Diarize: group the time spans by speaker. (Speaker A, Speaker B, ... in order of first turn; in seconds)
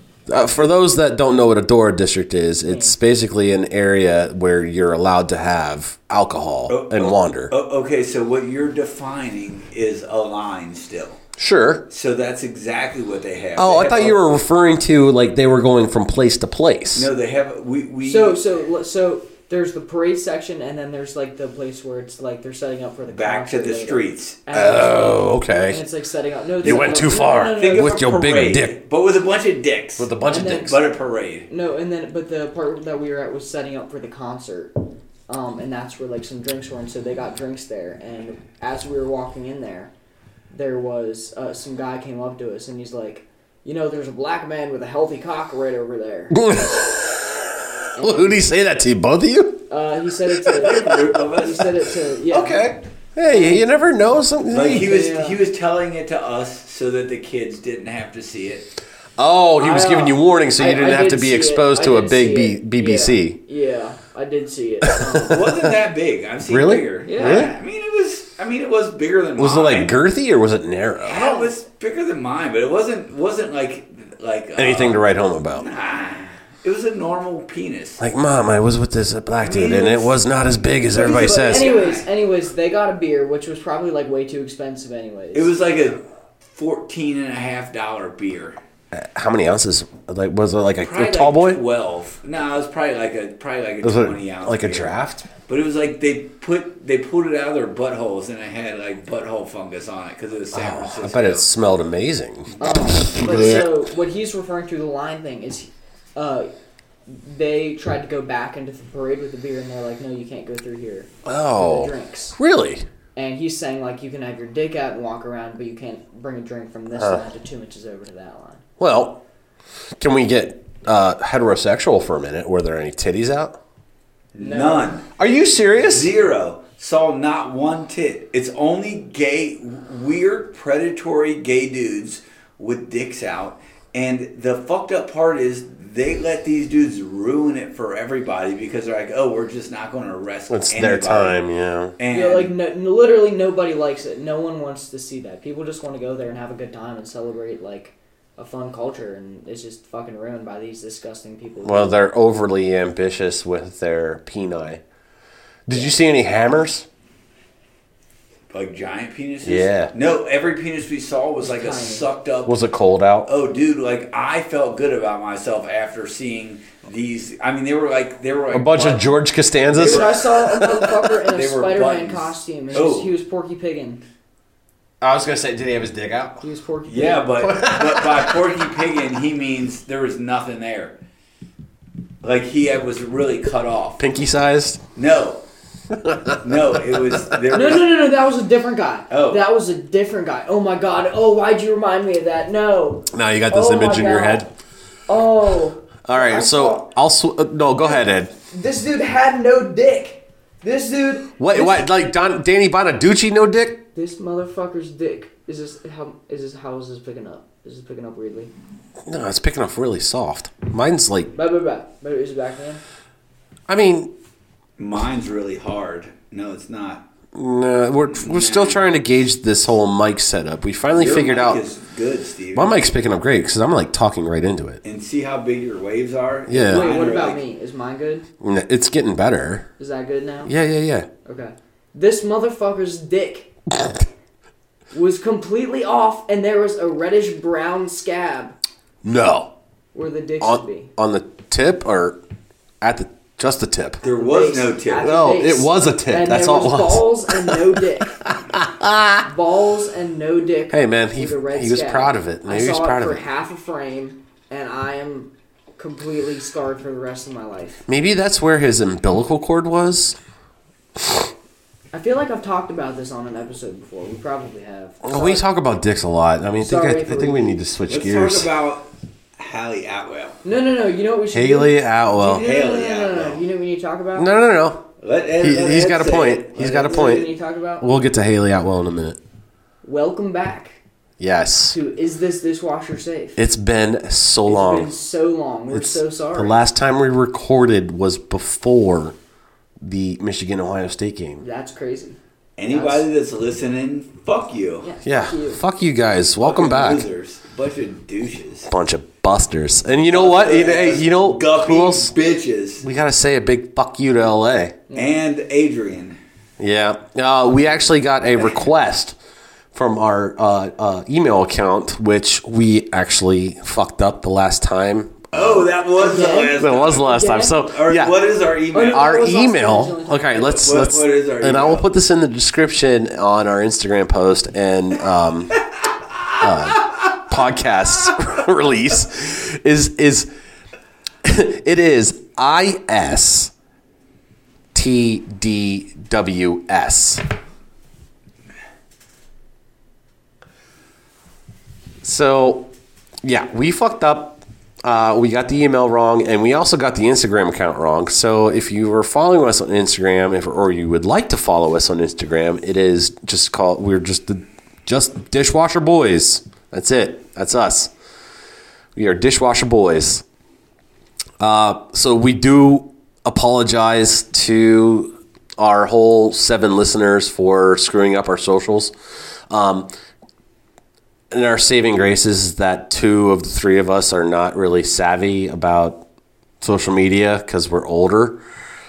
Speaker A: 0.3-7.5, 11.4-11.8, 13.6-17.1, 24.5-25.8, 26.6-28.8, 30.0-30.8, 46.3-49.7, 50.3-51.0, 52.3-55.0, 59.2-63.4, 64.8-65.8, 66.5-67.5, 69.4-71.2, 74.6-75.7, 78.0-81.8, 88.9-91.6, 93.8-95.3, 100.5-103.7, 111.2-112.9, 117.0-117.2, 118.8-119.2, 120.0-123.6, 125.2-126.1, 140.5-141.9, 151.6-154.8, 155.7-156.9, 159.4-159.9, 162.4-163.3, 168.5-171.1, 175.0-176.4, 177.4-178.8, 184.0-184.8, 185.9-187.4, 193.1-194.5, 196.1-198.3, 201.4-203.8, 209.1-211.3, 213.7-214.1, 217.3-221.6, 222.6-224.8, 226.5-226.9, 228.4-229.7, 230.5-231.1, 239.0-239.5, 240.4-242.2, 242.8-244.0, 245.0-249.3, 250.7-253.2, 257.9-260.2, 261.0-261.3, 265.0-268.5, 271.3-272.4, 274.1-274.8, 275.4-277.3, 277.8-279.2, 281.2-281.8, 283.4-284.9, 285.7-289.2, 289.8-291.4, 295.0-297.1, 298.7-302.1, 302.8-304.8, 306.6-309.2, 309.7-315.7, 316.6-318.1, 318.9-325.6, 326.4-330.3, 331.2-333.5, 334.7-337.2, 342.0-342.7, 343.2-357.9, 358.9-360.2, 361.4-368.9, 369.5-369.9, 371.3-376.1, 376.6-378.4
Speaker B: 2.7-3.0, 18.0-28.2, 30.3-30.8, 31.5-34.7, 35.3-39.9, 40.5-46.4, 48.0-48.5, 49.7-53.7, 54.6-55.4, 59.6-65.5, 67.1-67.5, 71.1-71.5, 81.0-85.5, 102.6-106.5, 107.1-112.4, 113.2-118.6, 124.4-125.0, 142.1-152.0, 155.7-156.0, 161.4-162.1, 169.8-174.0, 176.4-177.5, 187.5-194.5, 195.1-196.9, 198.5-201.9, 203.9-208.5, 211.3-212.8, 226.7-228.3, 229.8-230.5, 231.3-233.5, 234.9-238.6, 239.9-240.9, 244.2-248.2, 249.2-257.8, 261.9-265.4, 266.6-267.6, 270.4-274.3, 276.5-277.9, 279.8-280.8, 281.7-283.4, 284.5-286.6, 291.4-293.1, 294.8-295.6, 304.9-305.2, 316.0-317.6, 318.7-320.5
Speaker C: 6.7-11.2, 11.9-14.2, 16.9-18.4, 23.1-24.4, 26.6-31.5, 50.6-52.7, 54.5-58.7, 65.2-70.0, 71.0-78.0, 79.4-80.2, 80.9-82.1, 85.3-88.6, 90.8-101.5, 124.3-125.1, 125.8-141.4, 142.0-142.5, 158.5-162.6, 163.3-169.0, 169.7-170.5, 171.3-173.1, 176.9-181.0, 182.2-184.0, 185.0-185.4, 186.4-187.9, 189.1-189.4, 214.8-217.1, 218.1-218.9, 220.9-222.9, 224.8-227.4, 244.0-245.2, 267.9-270.4, 272.3-273.4, 275.0-277.3, 292.6-294.9, 296.4-298.7, 300.1-302.9, 304.9-306.2, 315.3-319.2, 320.4-321.9